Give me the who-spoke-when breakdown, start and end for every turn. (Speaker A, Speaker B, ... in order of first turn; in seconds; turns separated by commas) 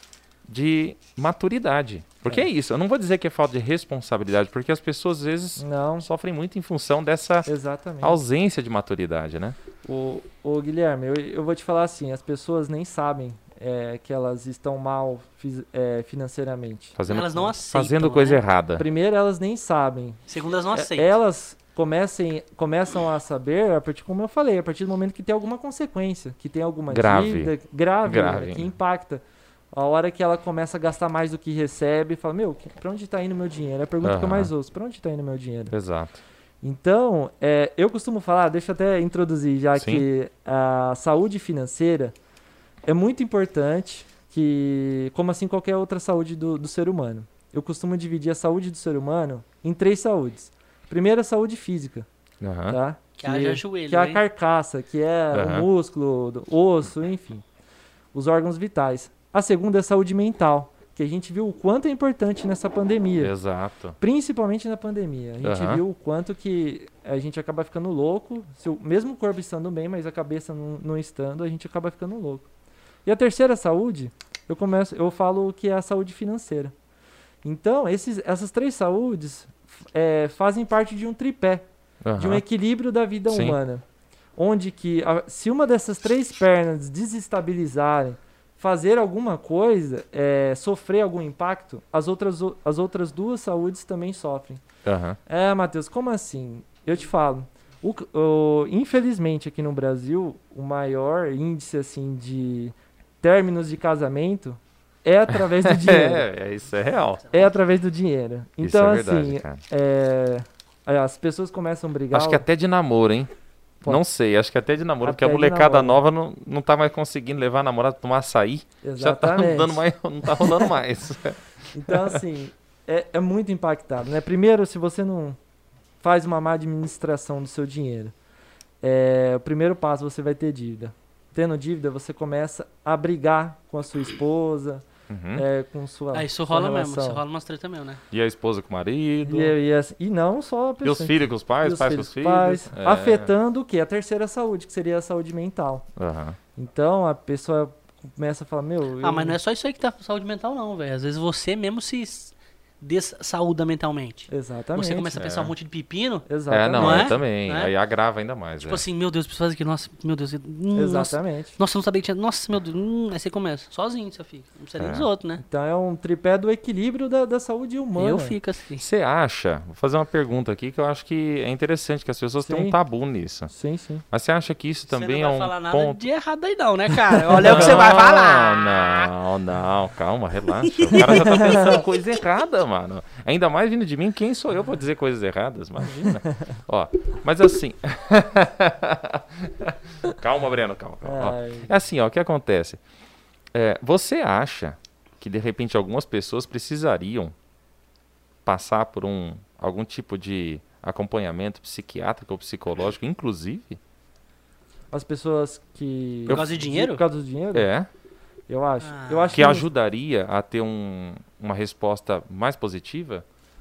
Speaker A: 0.5-7.5, Speaker B: 5.6-6.1, Speaker B: 7.5-8.2, Speaker A: 8.0-9.6, Speaker B: 9.8-17.0, Speaker A: 17.0-18.9, Speaker C: 17.1-18.4, Speaker B: 18.8-20.2, Speaker C: 20.3-21.1, Speaker B: 20.7-29.2, Speaker A: 26.9-27.5, Speaker A: 28.1-28.7, Speaker B: 29.7-35.7, Speaker A: 34.0-34.5, Speaker A: 35.7-36.2, Speaker B: 36.6-42.1, Speaker A: 39.8-40.1, Speaker B: 42.9-52.1, Speaker A: 52.4-52.8, Speaker B: 52.7-57.4, Speaker C: 53.2-54.2, Speaker A: 55.3-55.7, Speaker B: 58.1-63.3, Speaker A: 63.2-64.0, Speaker B: 64.0-72.5, Speaker A: 65.4-65.8, Speaker B: 73.0-76.7, Speaker B: 77.4-81.7, Speaker A: 82.0-82.4, Speaker B: 82.2-83.8, Speaker A: 83.3-83.6, Speaker B: 84.4-94.6, Speaker A: 94.8-95.2, Speaker B: 95.3-106.3, Speaker A: 105.3-107.3, Speaker B: 107.3-112.5, Speaker A: 108.6-109.6, Speaker A: 112.1-113.3, Speaker A: 113.8-122.2, Speaker B: 115.0-116.0, Speaker B: 118.8-119.8, Speaker B: 120.4-120.7, Speaker B: 121.7-125.4, Speaker B: 126.0-128.1, Speaker B: 128.8-137.2, Speaker A: 135.1-135.4, Speaker C: 136.1-138.0, Speaker A: 138.1-139.5, Speaker B: 139.2-145.9, Speaker A: 140.8-143.3, Speaker A: 146.0-146.4, Speaker B: 146.6-149.4, Speaker C: 149.0-157.7, Speaker B: 154.3-155.1, Speaker A: 155.2-155.5, Speaker B: 156.3-157.2, Speaker A: 156.5-158.8, Speaker C: 158.6-165.4, Speaker B: 160.7-161.6, Speaker A: 164.8-165.1, Speaker B: 165.4-168.4, Speaker C: 168.0-168.8, Speaker A: 168.8-173.5, Speaker B: 172.4-172.8, Speaker B: 173.5-174.0, Speaker A: 174.1-176.0, Speaker C: 174.9-179.1, Speaker B: 177.3-177.6, Speaker A: 177.3-192.8, Speaker C: 180.6-181.8, Speaker B: 181.0-181.8, Speaker B: 186.1-186.4, Speaker B: 191.1-191.7, Speaker A: 193.5-197.3, Speaker A: 198.4-203.8, Speaker B: 204.9-207.7, Speaker C: 206.3-207.0, Speaker A: 207.5-207.9, Speaker B: 208.5-209.7, Speaker C: 208.8-209.4, Speaker A: 209.3-213.2